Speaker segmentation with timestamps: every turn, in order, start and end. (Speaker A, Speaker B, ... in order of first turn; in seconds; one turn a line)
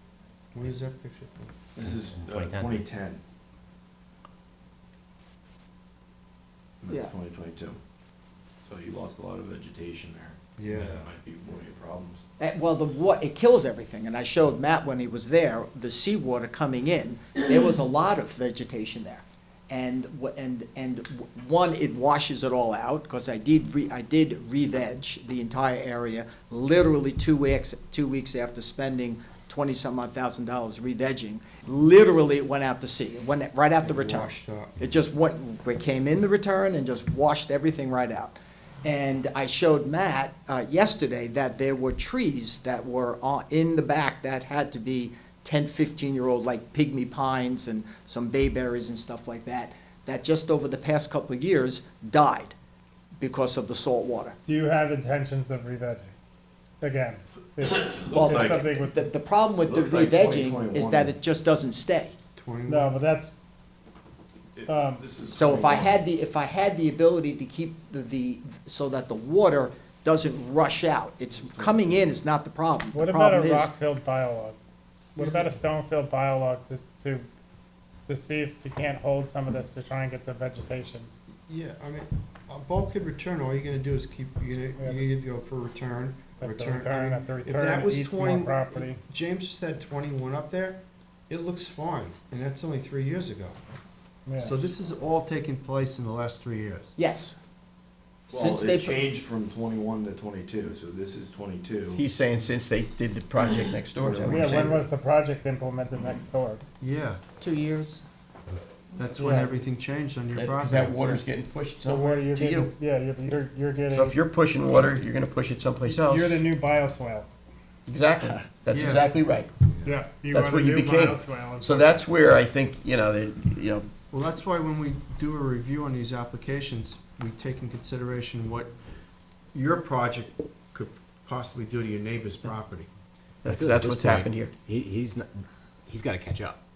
Speaker A: 0.5-1.6
Speaker B: 1.8-3.2
Speaker C: 1.8-2.8
Speaker B: 6.8-7.8
Speaker D: 6.9-7.1
Speaker B: 8.6-12.2
Speaker A: 10.6-11.1
Speaker D: 12.4-52.5
Speaker A: 33.8-34.8
Speaker D: 53.2-54.4
Speaker E: 54.5-56.1
Speaker E: 56.8-59.0
Speaker B: 57.6-58.7
Speaker D: 58.1-62.1
Speaker B: 59.6-61.1
Speaker A: 62.4-62.9
Speaker E: 62.7-63.3
Speaker B: 64.5-66.0
Speaker E: 64.7-65.0
Speaker D: 65.3-73.8
Speaker B: 71.4-72.2
Speaker E: 72.9-74.6
Speaker E: 75.1-77.3
Speaker A: 75.2-75.5
Speaker E: 78.0-81.1
Speaker A: 81.5-93.6
Speaker E: 84.8-85.0
Speaker E: 86.4-89.0
Speaker E: 94.2-94.6
Speaker A: 94.4-96.9
Speaker D: 97.0-97.4
Speaker B: 98.3-102.0
Speaker D: 98.3-99.1
Speaker F: 101.9-104.8
Speaker B: 104.0-104.6
Speaker E: 104.2-106.6
Speaker A: 106.8-107.2
Speaker D: 107.4-108.0
Speaker A: 108.9-111.2
Speaker E: 109.2-109.5
Speaker F: 110.3-112.7
Speaker E: 111.8-114.1
Speaker F: 113.9-116.4
Speaker E: 115.9-117.3
Speaker F: 117.8-119.5
Speaker A: 118.7-119.0
Speaker E: 119.8-121.9
Speaker F: 120.3-123.9
Speaker A: 124.1-128.8
Speaker A: 129.5-132.9
Speaker F: 133.4-134.5
Speaker C: 133.4-136.6